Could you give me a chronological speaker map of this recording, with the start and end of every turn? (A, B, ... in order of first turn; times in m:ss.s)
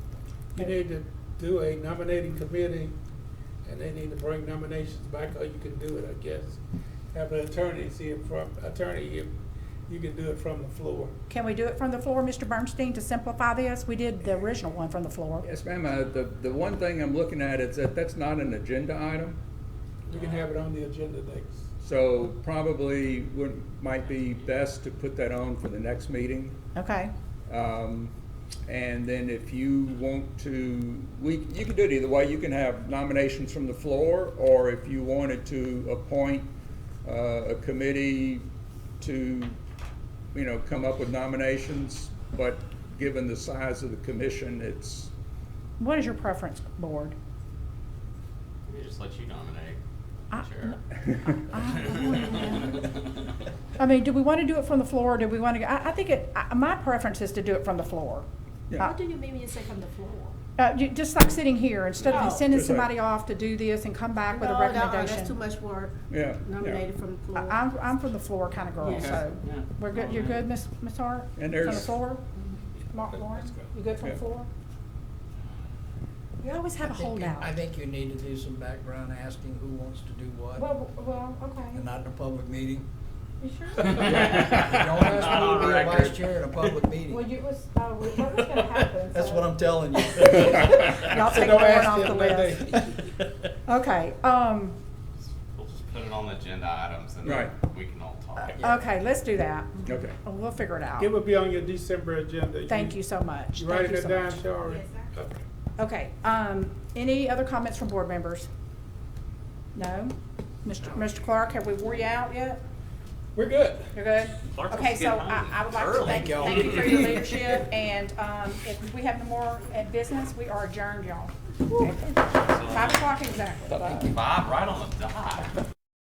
0:00.5-0:02.9 A
0:03.6-0:06.6 A
0:07.1-0:09.3 A
0:09.9-0:11.1 A
0:11.3-0:15.4 B
0:15.4-0:19.4 C
0:20.1-0:21.6 A
0:20.1-0:20.4 D
0:21.8-0:26.6 C
0:26.7-0:27.1 B
0:27.5-0:28.1 C
0:28.7-0:36.5 C
0:37.0-0:38.4 C
0:39.0-0:39.6 C
0:40.3-0:45.1 C
0:45.8-0:47.1 B
0:48.7-0:49.8 D
0:50.3-0:50.8 D
0:50.3-0:52.9 B
0:53.8-0:58.3 B
0:58.8-1:00.3 E
1:00.6-1:05.4 B
1:02.0-1:02.9 C
1:02.1-1:02.4 E
1:04.3-1:07.6 E
1:06.1-1:06.8 C
1:07.3-1:12.2 B
1:08.8-1:09.2 E
1:11.4-1:12.0 C
1:12.9-1:14.5 B
1:16.4-1:17.5 B
1:16.8-1:20.7 F
1:20.6-1:21.8 B
1:21.7-1:22.8 F
1:23.4-1:24.3 B
1:23.9-1:27.3 F
1:25.0-1:26.3 D
1:27.1-1:29.5 B
1:29.1-1:31.9 F
1:30.2-1:32.8 B
1:31.3-1:32.7 A
1:32.7-1:33.1 F
1:33.7-1:34.8 B
1:35.4-1:38.8 D
1:37.2-1:37.5 C
1:38.4-1:41.1 B
1:39.8-1:40.2 C
1:41.0-1:43.0 A
1:42.7-1:44.4 B
1:43.6-1:45.4 A
1:44.7-1:45.1 E
1:45.8-1:48.5 B
1:49.7-1:52.6 B
1:53.3-1:53.9 A
1:53.9-2:04.1 B
1:54.5-1:57.1 D
1:55.9-1:57.3 F
2:02.3-2:03.0 D
2:03.7-2:04.1 C
2:03.9-2:05.5 D